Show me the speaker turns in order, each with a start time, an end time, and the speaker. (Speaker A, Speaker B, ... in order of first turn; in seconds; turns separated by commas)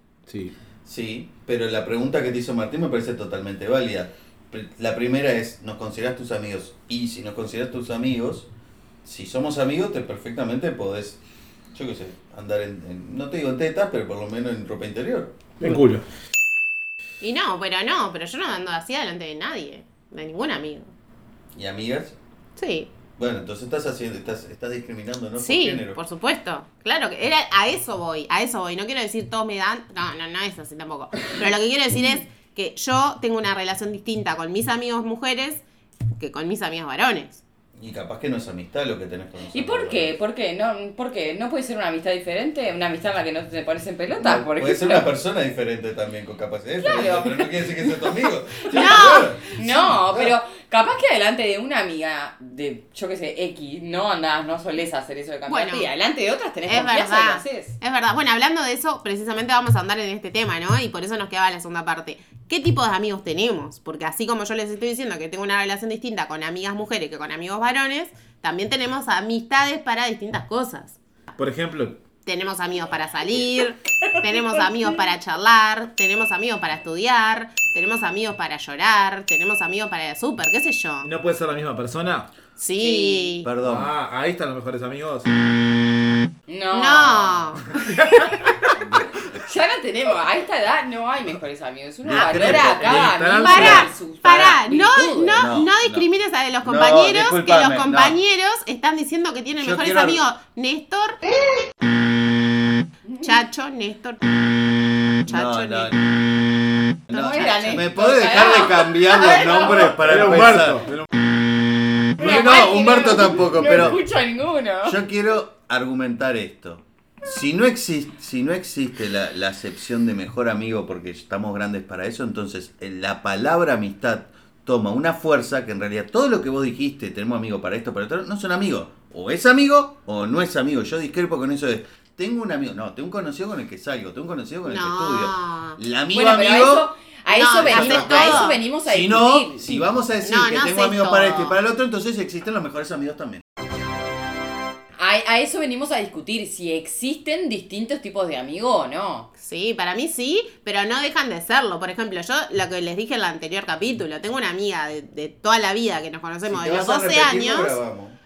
Speaker A: 0.3-0.5, Speaker B: 0.8-8.5, Speaker B: 9.0-11.2, Speaker B: 11.7-15.7, Speaker A: 15.6-16.0, Speaker C: 17.2-20.9, Speaker B: 21.5-22.2, Speaker C: 22.6-22.9, Speaker B: 23.1-26.0, Speaker C: 25.4-35.6, Speaker C: 36.2-37.4, Speaker B: 37.7-40.1, Speaker D: 39.5-45.1, Speaker B: 44.2-49.5, Speaker D: 46.8-47.9, Speaker D: 48.6-57.8, Speaker C: 48.7-49.4, Speaker A: 49.7-50.2, Speaker C: 55.5-55.9, Speaker C: 56.6-71.0, Speaker A: 71.4-72.0, Speaker C: 72.2-81.1, Speaker D: 74.2-74.9, Speaker A: 81.0-82.3, Speaker C: 82.6-83.5, Speaker D: 82.8-83.4, Speaker B: 83.4-83.9, Speaker A: 83.6-85.3, Speaker D: 86.5-87.6, Speaker C: 86.7-87.6, Speaker A: 87.8-88.3, Speaker B: 88.8-89.3, Speaker D: 89.3-95.5, Speaker B: 92.0-93.7, Speaker C: 92.1-101.2, Speaker A: 92.6-93.9, Speaker B: 95.3-96.1, Speaker B: 96.6-98.2, Speaker B: 99.6-100.2, Speaker D: 103.0-103.4, Speaker C: 103.2-104.4, Speaker C: 105.2-105.9, Speaker B: 105.2-114.0, Speaker D: 107.1-110.0, Speaker C: 107.1-107.8, Speaker A: 109.9-111.1, Speaker D: 112.2-115.0, Speaker B: 114.8-136.9, Speaker C: 134.7-135.8, Speaker D: 136.1-139.9, Speaker C: 137.3-138.6, Speaker B: 137.5-143.4, Speaker C: 140.2-141.6, Speaker D: 145.0-149.3, Speaker C: 149.4-157.8, Speaker B: 156.4-158.2